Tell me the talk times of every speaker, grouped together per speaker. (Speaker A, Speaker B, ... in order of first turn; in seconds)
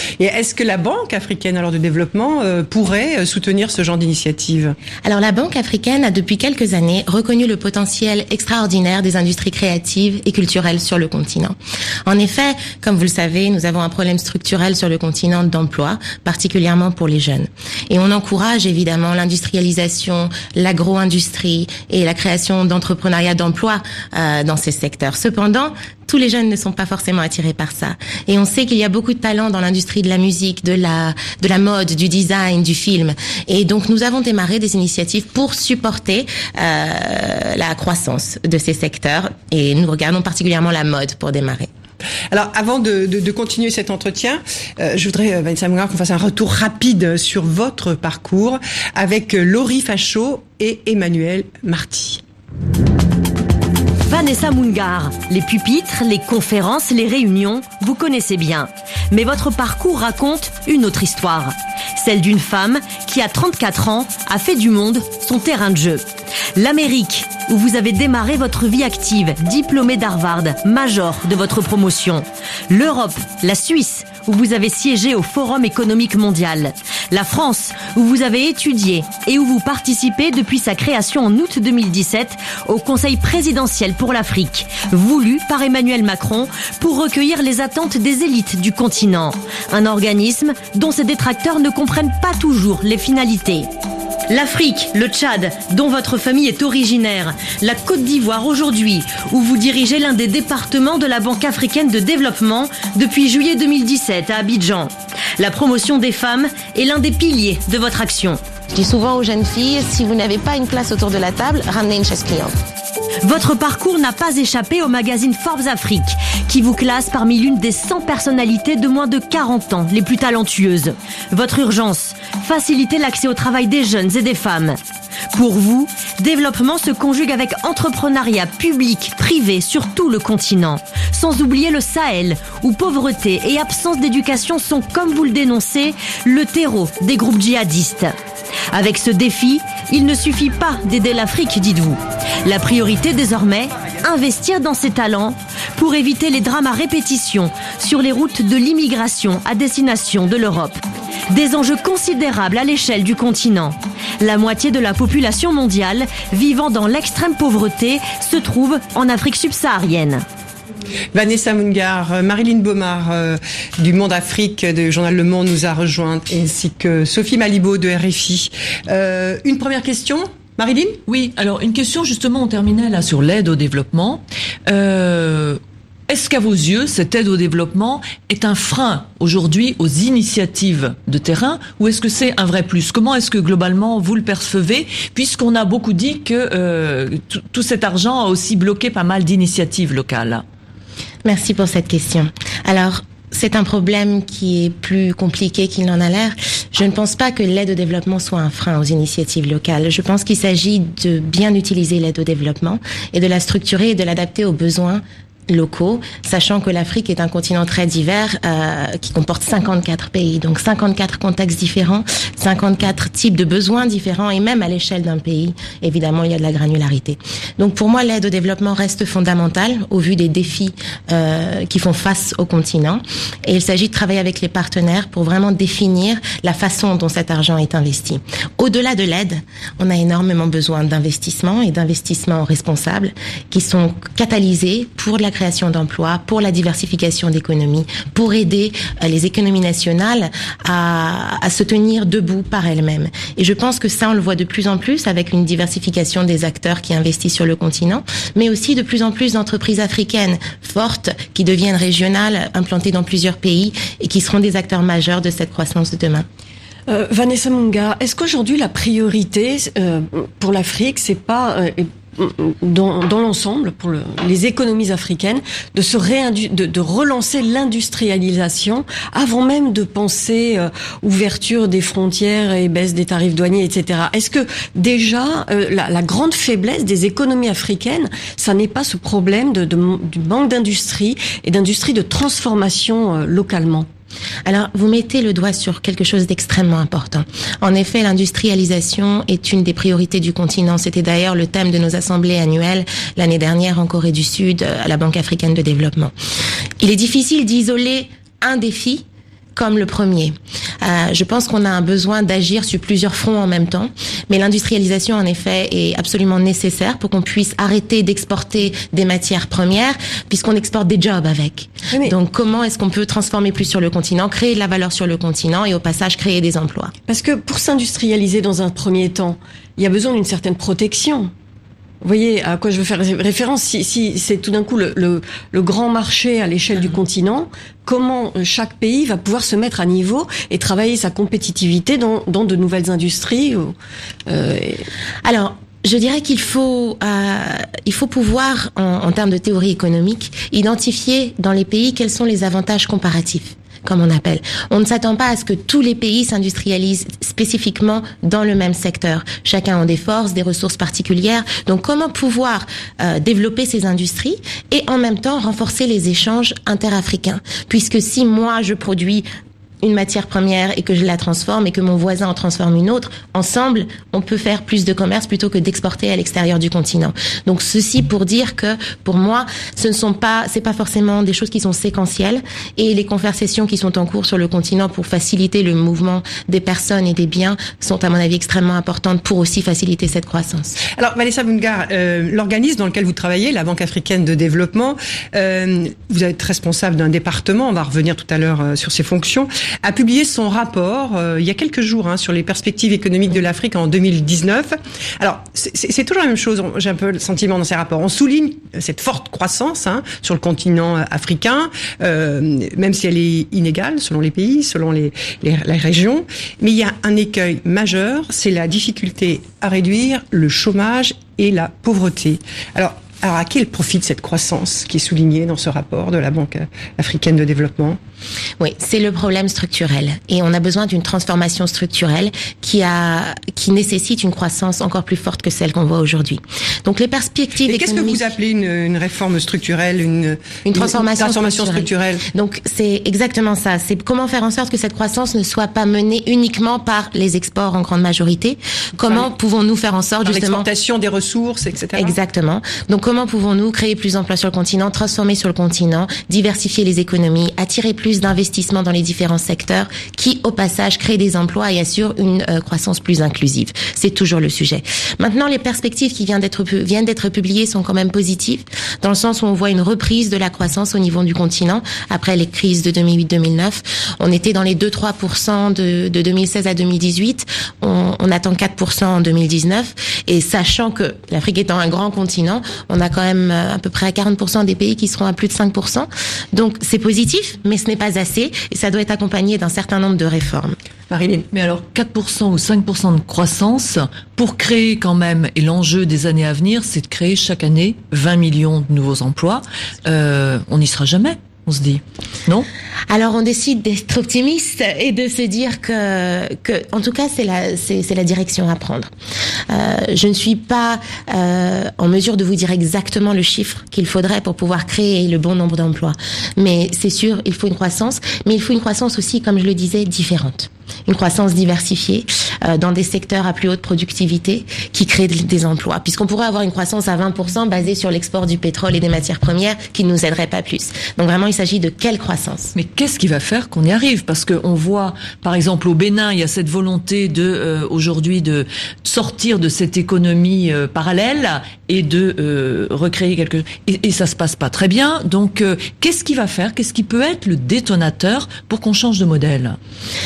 Speaker A: 0.2-4.8, 42.3-52.2, 161.1-171.0, 380.9-418.0, 427.6-432.2, 440.2-442.1, 481.1-481.5
Speaker B: 5.0-41.7, 108.7-112.5, 191.2-256.2, 284.4-296.1, 296.8-316.9, 335.2-359.3, 359.8-380.8, 418.6-428.2, 430.6-440.7, 441.9-480.8, 493.1-499.1, 499.7-522.7
Speaker C: 54.1-66.0, 66.5-93.7, 94.3-108.4, 113.2-124.8, 125.3-138.1, 138.7-150.8, 151.3-160.2
Speaker D: 171.1-190.4, 481.5-492.7, 522.8-539.8
Speaker E: 256.9-283.9, 317.1-321.3, 322.0-333.8, 334.3-334.9